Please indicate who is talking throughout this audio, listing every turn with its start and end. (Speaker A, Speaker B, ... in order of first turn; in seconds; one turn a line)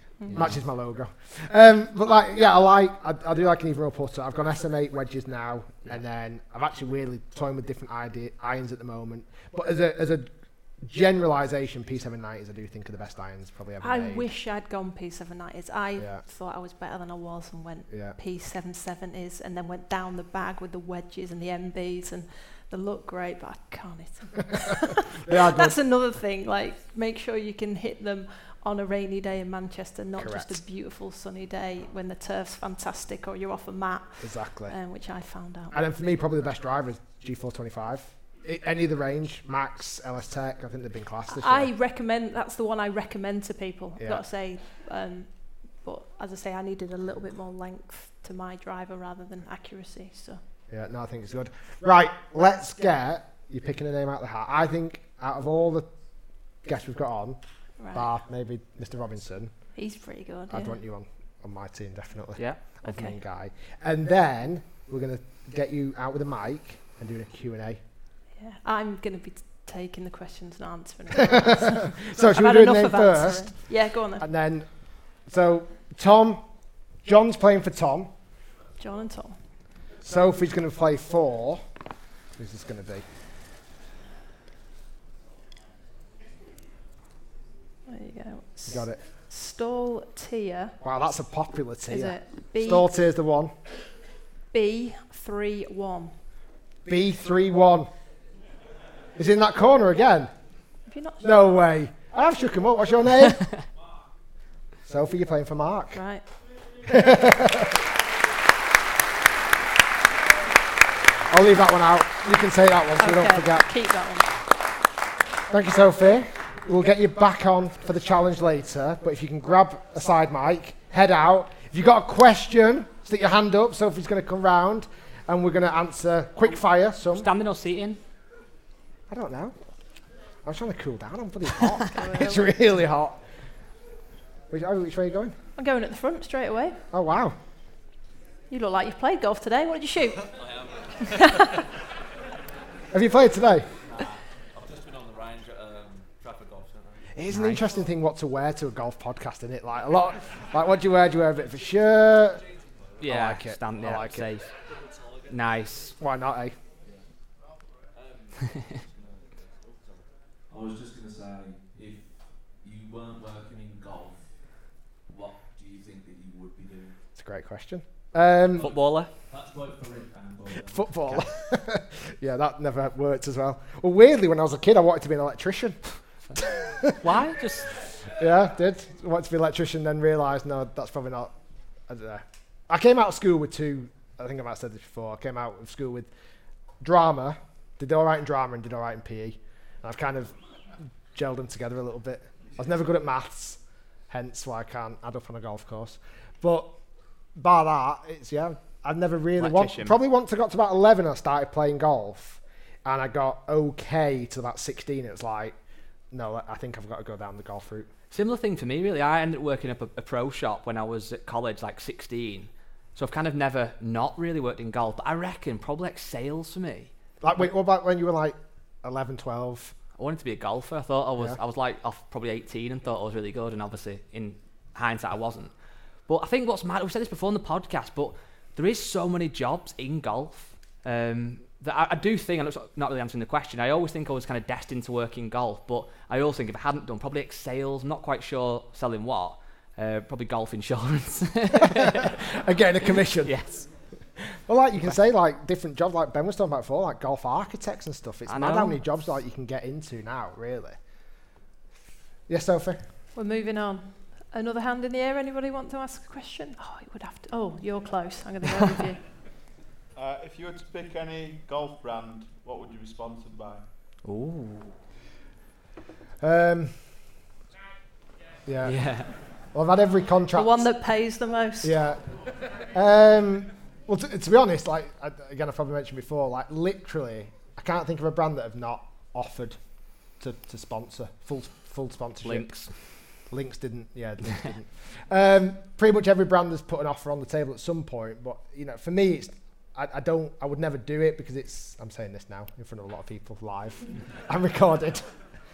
Speaker A: 0.3-0.6
Speaker B: 0.3-14.3
Speaker C: 13.8-35.8
Speaker B: 17.9-18.2
Speaker B: 25.3-25.8
Speaker B: 30.2-30.6
Speaker B: 34.2-34.8
Speaker B: 35.7-41.7
Speaker C: 41.3-50.4
Speaker B: 50.7-55.9
Speaker B: 56.6-57.4
Speaker C: 57.8-58.1
Speaker B: 57.9-59.5
Speaker C: 59.7-60.8
Speaker B: 60.5-67.8
Speaker C: 62.8-63.2
Speaker C: 68.4-74.3
Speaker B: 71.3-76.4
Speaker B: 77.0-78.1
Speaker C: 78.8-79.4
Speaker B: 80.0-81.6
Speaker B: 82.4-83.0
Speaker C: 87.9-90.8
Speaker B: 88.7-89.0
Speaker B: 90.8-93.5
Speaker C: 91.9-92.9
Speaker C: 94.5-96.2
Speaker B: 96.9-97.9
Speaker B: 99.2-100.3
Speaker C: 100.9-101.3
Speaker B: 101.2-103.5
Speaker B: 104.9-106.0
Speaker C: 105.9-106.3
Speaker B: 106.8-107.8
Speaker B: 111.3-113.7
Speaker C: 113.0-114.4
Speaker B: 115.5-127.3
Speaker A: 127.1-128.0
Speaker B: 129.1-129.6
Speaker B: 130.4-133.2
Speaker C: 131.9-132.5
Speaker B: 134.5-135.3
Speaker C: 135.6-136.8
Speaker B: 136.9-137.4
Speaker C: 138.5-140.3
Speaker D: 140.3-141.2
Speaker C: 141.2-141.6
Speaker B: 142.9-143.7
Speaker D: 143.8-147.1
Speaker B: 147.1-152.4
Speaker A: 147.3-147.6
Speaker A: 153.0-154.5
Speaker B: 153.0-154.3
Speaker D: 154.8-155.3
Speaker A: 155.3-155.9
Speaker B: 156.0-156.6
Speaker D: 157.9-164.3
Speaker D: 165.1-167.0
Speaker B: 167.2-168.7
Speaker A: 168.6-169.1
Speaker D: 169.3-171.3
Speaker B: 170.7-175.8
Speaker B: 176.3-177.0
Speaker A: 177.0-177.7
Speaker B: 178.2-181.3
Speaker B: 181.9-186.1
Speaker B: 186.8-190.3
Speaker B: 191.1-196.8
Speaker B: 197.4-205.6
Speaker A: 199.4-200.0
Speaker B: 206.1-207.9
Speaker A: 208.1-216.9
Speaker B: 217.2-219.7
Speaker A: 220.0-225.5
Speaker A: 226.1-242.2
Speaker B: 241.5-243.4
Speaker A: 243.2-243.7
Speaker B: 244.3-250.8
Speaker A: 248.3-248.8
Speaker B: 252.3-252.8
Speaker C: 253.1-259.0
Speaker E: 259.9-263.6
Speaker A: 264.1-264.8
Speaker B: 266.2-266.8
Speaker B: 268.5-268.9
Speaker A: 268.6-269.1
Speaker B: 269.5-270.7
Speaker C: 270.3-271.8
Speaker B: 271.6-272.0
Speaker B: 272.7-279.6
Speaker B: 280.2-282.5
Speaker A: 282.2-282.7
Speaker B: 283.3-295.1